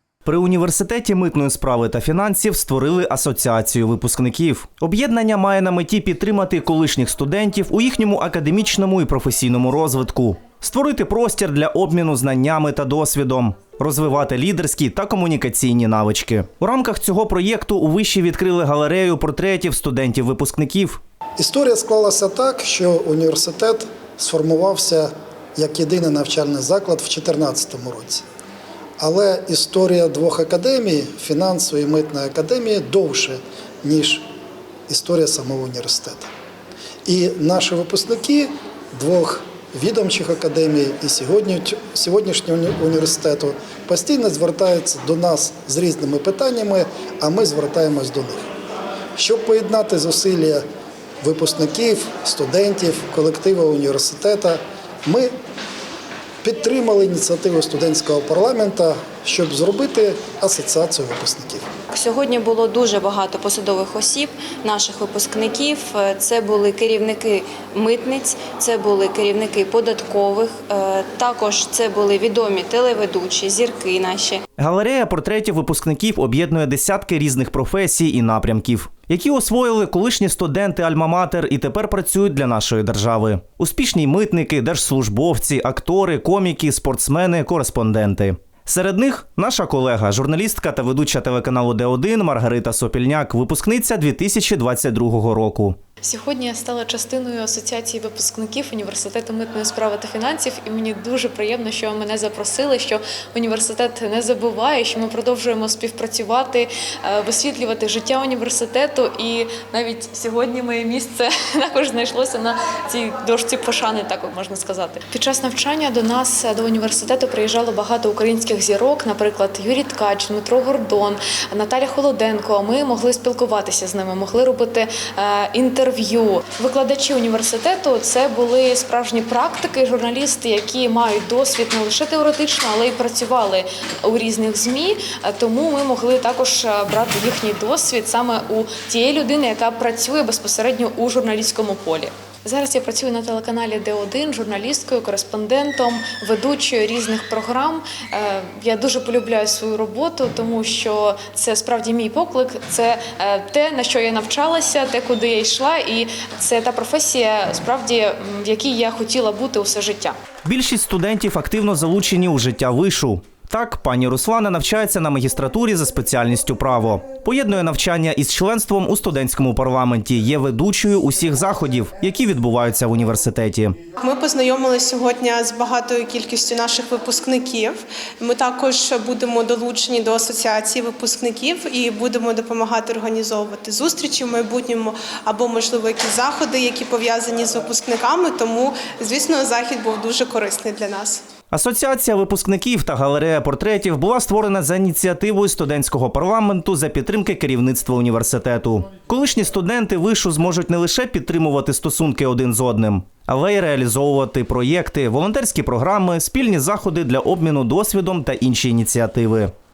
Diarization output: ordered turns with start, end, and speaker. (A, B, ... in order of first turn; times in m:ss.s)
0:00.2-0:21.0 A
0:21.4-0:28.2 B
0:29.0-0:34.3 B
0:34.9-0:36.3 B
0:37.1-0:48.5 B
0:49.2-0:50.6 B
0:51.2-0:55.3 B
0:56.4-1:01.6 B
1:01.9-1:14.4 C
1:14.6-1:35.8 A
1:36.0-2:40.2 D
2:40.4-2:53.8 A
2:54.0-3:11.2 E
3:11.5-3:29.5 A